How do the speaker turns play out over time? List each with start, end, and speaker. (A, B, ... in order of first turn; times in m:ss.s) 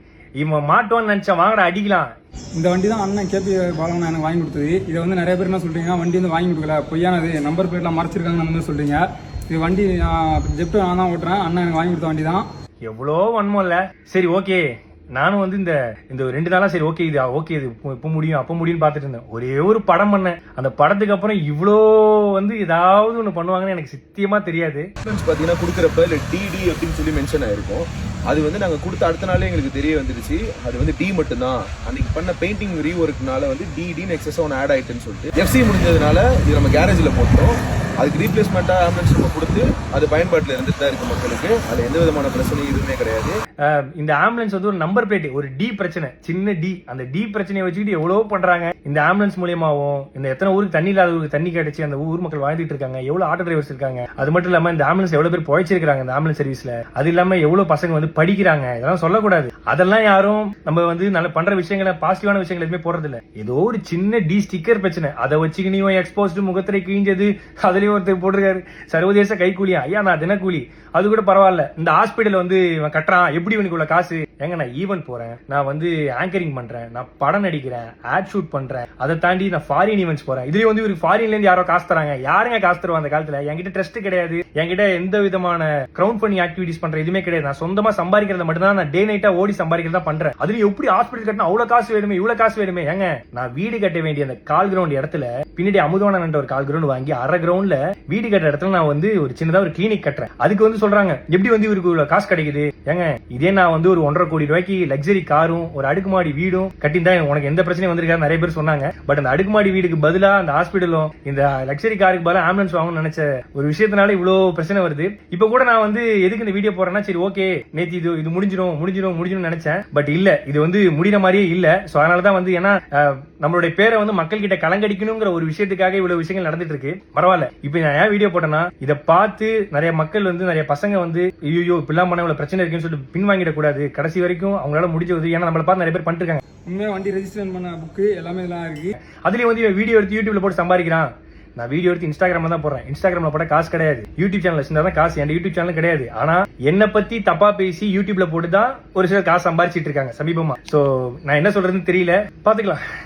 0:00.4-0:02.1 A
0:02.6-0:12.4 B
0:12.8-0:14.6 A
0:15.2-0:24.9 A
0:25.0-0:43.3 C
0:43.6-2:16.4 A
2:16.6-2:19.0 B
2:19.2-2:32.8 A